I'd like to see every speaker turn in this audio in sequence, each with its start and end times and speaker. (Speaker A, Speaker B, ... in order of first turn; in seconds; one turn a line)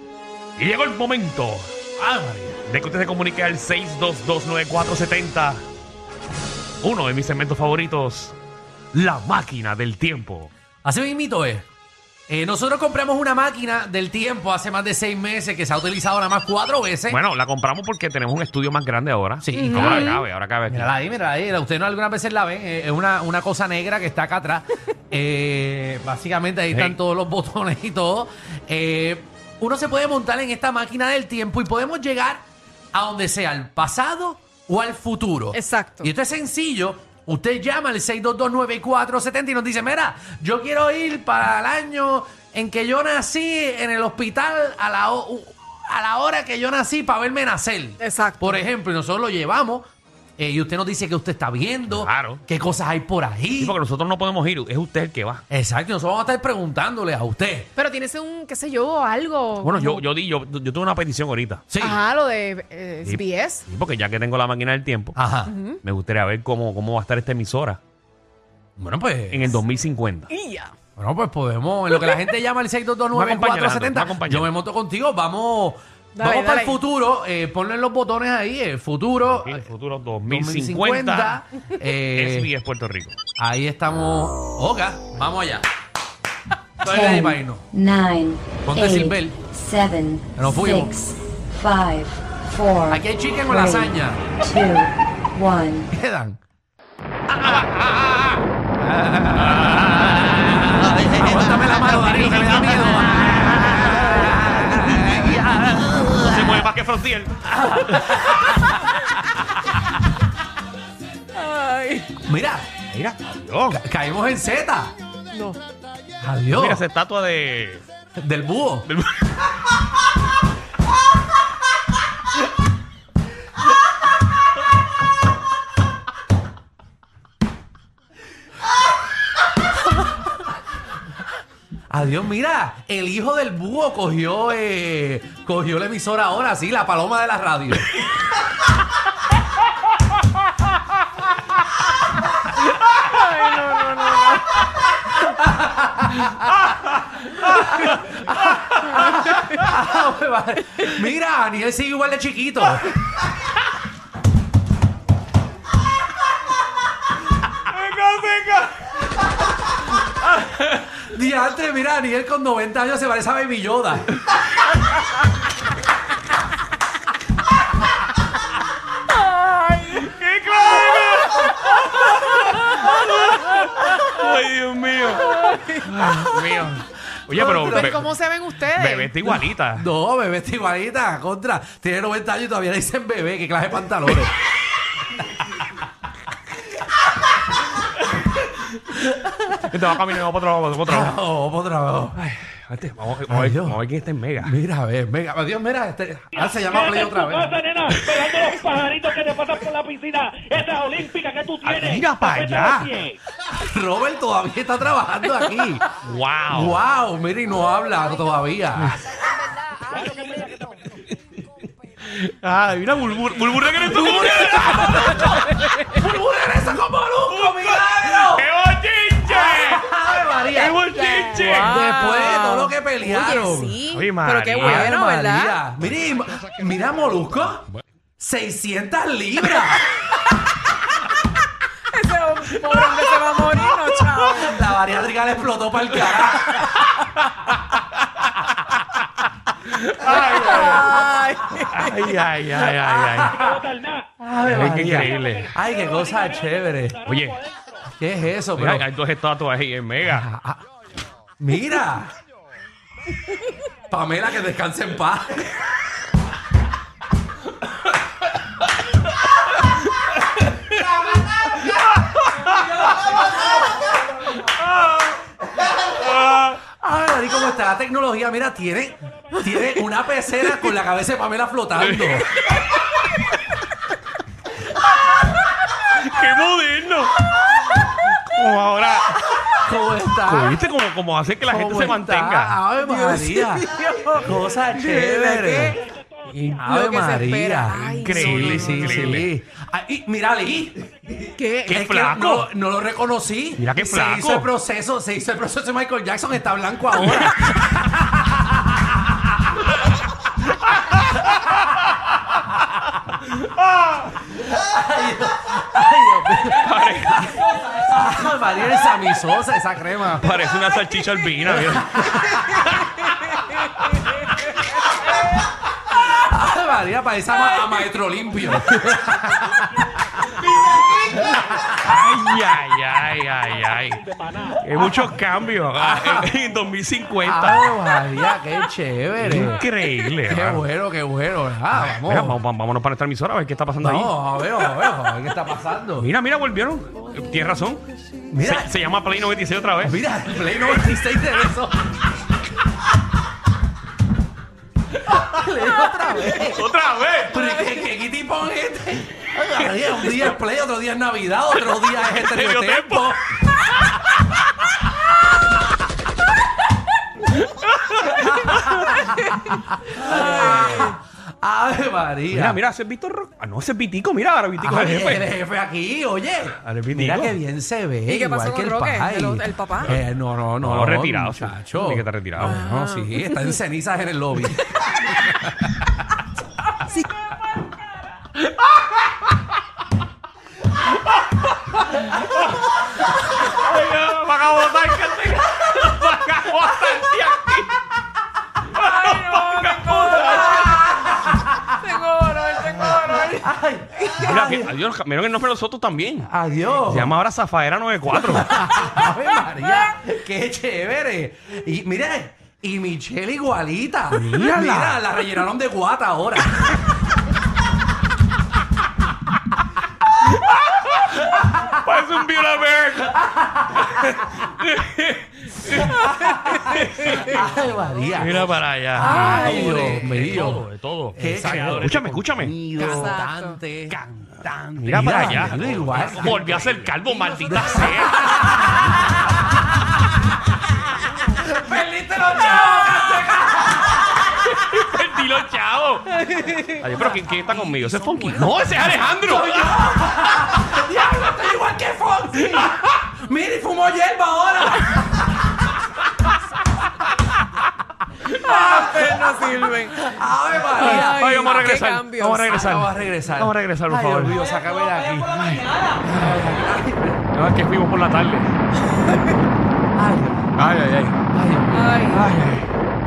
Speaker A: 0.6-1.7
Speaker B: 2.0-2.6
Speaker A: 2.6-5.6
Speaker A: 6.8-8.3
Speaker A: 8.9-10.5
Speaker B: 10.8-11.7
Speaker B: 12.3-17.2
Speaker A: 17.1-20.9
Speaker B: 19.4-20.2
Speaker C: 19.6-20.2
Speaker B: 20.7-49.9
Speaker C: 35.5-36.1
Speaker C: 48.0-48.6
Speaker B: 50.4-53.8
Speaker A: 51.9-52.4
Speaker A: 53.6-55.4
Speaker B: 55.5-57.7
Speaker C: 57.8-60.0
Speaker A: 59.6-61.6
Speaker B: 61.7-62.0
Speaker C: 61.8-63.6
Speaker A: 63.0-65.2
Speaker B: 65.1-65.5
Speaker C: 65.5-65.8
Speaker A: 65.8-67.8
Speaker B: 68.8-69.6
Speaker A: 69.3-70.3
Speaker C: 70.3-70.7
Speaker B: 71.0-79.7
Speaker A: 73.1-74.5
Speaker C: 76.2-76.8
Speaker A: 79.3-81.4
Speaker B: 80.3-82.5
Speaker A: 82.1-83.2
Speaker B: 83.3-85.7
Speaker B: 86.8-87.7
Speaker D: 86.8-95.9
Speaker B: 88.6-89.4
Speaker B: 90.4-91.0
Speaker B: 92.9-94.2
Speaker B: 95.9-96.4
Speaker B: 97.3-98.1
Speaker A: 97.4-98.4
Speaker B: 98.8-106.4
Speaker A: 99.3-105.6
Speaker A: 106.1-108.0
Speaker B: 107.5-109.0
Speaker C: 111.3-112.1
Speaker B: 112.2-112.7
Speaker A: 112.9-113.8
Speaker B: 113.7-114.9
Speaker C: 115.3-115.6
Speaker B: 116.2-116.8
Speaker A: 116.5-117.8
Speaker B: 118.2-118.9
Speaker A: 118.8-119.3
Speaker B: 131.9-138.0
Speaker C: 142.7-144.6
Speaker B: 145.3-146.5
Speaker B: 147.2-152.9
Speaker A: 157.7-158.9
Speaker B: 160.2-164.1
Speaker C: 169.1-170.0
Speaker A: 169.8-178.0
Speaker C: 175.2-176.2
Speaker B: 177.3-178.1
Speaker C: 177.6-179.2
Speaker A: 178.6-179.8
Speaker B: 179.2-184.4
Speaker B: 189.2-189.6
Speaker A: 189.6-191.2
Speaker B: 190.8-192.2
Speaker A: 192.1-194.5
Speaker B: 193.3-193.8
Speaker B: 194.4-197.6
Speaker E: 197.2-201.6
Speaker A: 197.9-198.4
Speaker A: 201.6-203.0
Speaker E: 202.6-203.1
Speaker B: 203.4-205.8
Speaker A: 206.0-206.8
Speaker B: 206.5-209.0
Speaker E: 210.1-210.5
Speaker A: 212.0-215.5
Speaker B: 213.8-218.5
Speaker A: 217.3-219.9
Speaker B: 219.3-220.8
Speaker A: 220.5-222.0
Speaker C: 221.1-225.6
Speaker B: 221.4-223.8
Speaker A: 223.9-224.9
Speaker B: 224.6-227.6
Speaker B: 228.2-229.9
Speaker C: 231.9-234.6
Speaker B: 234.0-236.8
Speaker A: 239.8-241.0
Speaker C: 240.3-242.1
Speaker A: 241.6-243.5
Speaker B: 242.8-243.6
Speaker E: 243.5-244.1
Speaker B: 244.2-247.1
Speaker A: 244.4-245.5
Speaker A: 247.1-247.4
Speaker E: 247.5-247.8
Speaker B: 247.9-248.8
Speaker A: 248.6-250.3
Speaker B: 250.0-250.6
Speaker B: 251.4-252.1
Speaker B: 253.9-255.5
Speaker A: 265.9-266.6
Speaker B: 266.6-272.3
Speaker A: 271.8-272.6
Speaker A: 275.8-277.3
Speaker A: 278.1-279.2
Speaker B: 279.5-280.6
Speaker A: 280.3-282.6
Speaker B: 281.4-299.0
Speaker C: 282.8-285.8
Speaker C: 286.6-288.9
Speaker A: 288.0-289.3
Speaker C: 291.4-291.9
Speaker A: 291.8-292.5
Speaker A: 293.6-294.5
Speaker A: 300.7-301.8
Speaker B: 304.2-310.4
Speaker A: 306.4-307.5
Speaker A: 310.2-312.6
Speaker B: 311.7-312.7
Speaker B: 315.9-320.4
Speaker B: 321.0-321.7
Speaker A: 321.7-327.7
Speaker E: 324.2-324.6
Speaker B: 325.7-326.3
Speaker B: 327.2-329.7
Speaker A: 329.2-330.6
Speaker B: 330.2-332.4
Speaker A: 331.7-334.1
Speaker B: 333.8-336.1
Speaker A: 336.0-337.8
Speaker B: 338.3-338.7
Speaker A: 338.4-340.0
Speaker B: 339.8-342.0
Speaker B: 345.1-346.7
Speaker A: 346.3-347.5
Speaker B: 347.3-353.3
Speaker A: 352.0-353.2
Speaker A: 357.4-359.0
Speaker B: 358.3-358.9
Speaker B: 359.8-362.6
Speaker C: 360.0-361.0
Speaker A: 360.3-360.9
Speaker A: 362.3-365.3
Speaker B: 364.6-375.9
Speaker A: 366.6-367.4
Speaker C: 368.1-369.9
Speaker A: 370.6-372.6
Speaker C: 372.4-373.3
Speaker A: 381.9-382.7
Speaker A: 383.4-387.7
Speaker A: 388.7-391.4
Speaker C: 388.7-393.5
Speaker B: 391.2-391.5
Speaker B: 392.9-394.7
Speaker A: 394.2-398.6
Speaker B: 396.2-397.1
Speaker B: 398.1-406.9
Speaker A: 404.1-405.0
Speaker A: 410.4-416.1
Speaker C: 416.0-416.5
Speaker B: 416.2-429.2
Speaker A: 416.6-417.5
Speaker A: 418.1-422.9
Speaker C: 419.0-420.0
Speaker C: 422.7-423.6
Speaker A: 424.8-429.1
Speaker B: 431.4-434.2
Speaker A: 432.6-432.9
Speaker A: 434.2-439.8
Speaker B: 436.9-445.3
Speaker C: 448.3-450.1
Speaker B: 448.4-449.3
Speaker B: 450.0-451.5
Speaker A: 450.7-454.4
Speaker C: 450.8-452.7
Speaker B: 452.1-457.3
Speaker A: 455.3-456.4
Speaker A: 457.3-458.5
Speaker B: 459.9-460.5
Speaker A: 460.6-461.3
Speaker B: 461.3-462.2
Speaker C: 461.7-462.3
Speaker A: 462.1-462.7